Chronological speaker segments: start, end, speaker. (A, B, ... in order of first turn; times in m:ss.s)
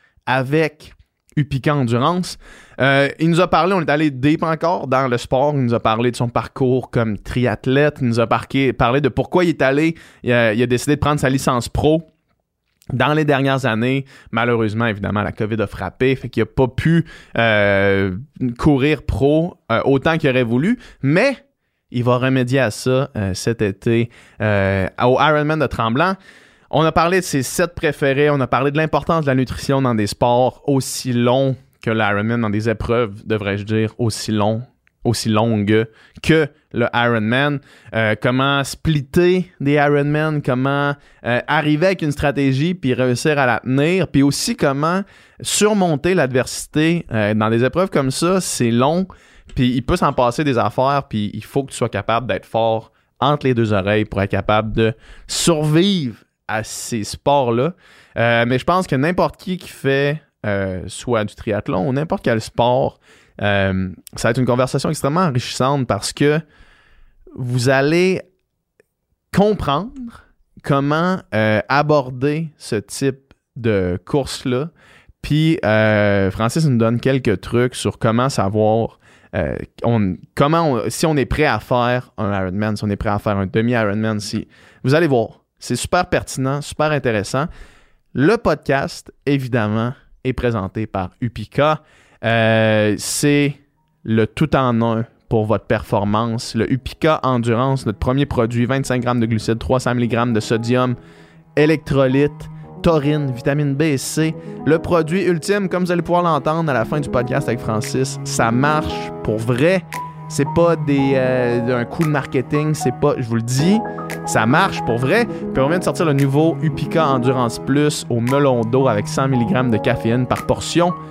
0:00.3-0:12.1 A
0:12.9-0:21.4 A
0:21.9-0:26.2 A
0:26.7-1:06.4 A
1:07.4-1:08.2 A
1:09.3-1:14.7 A
1:15.2-1:27.5 A
1:28.1-1:41.0 A
1:41.6-2:01.0 A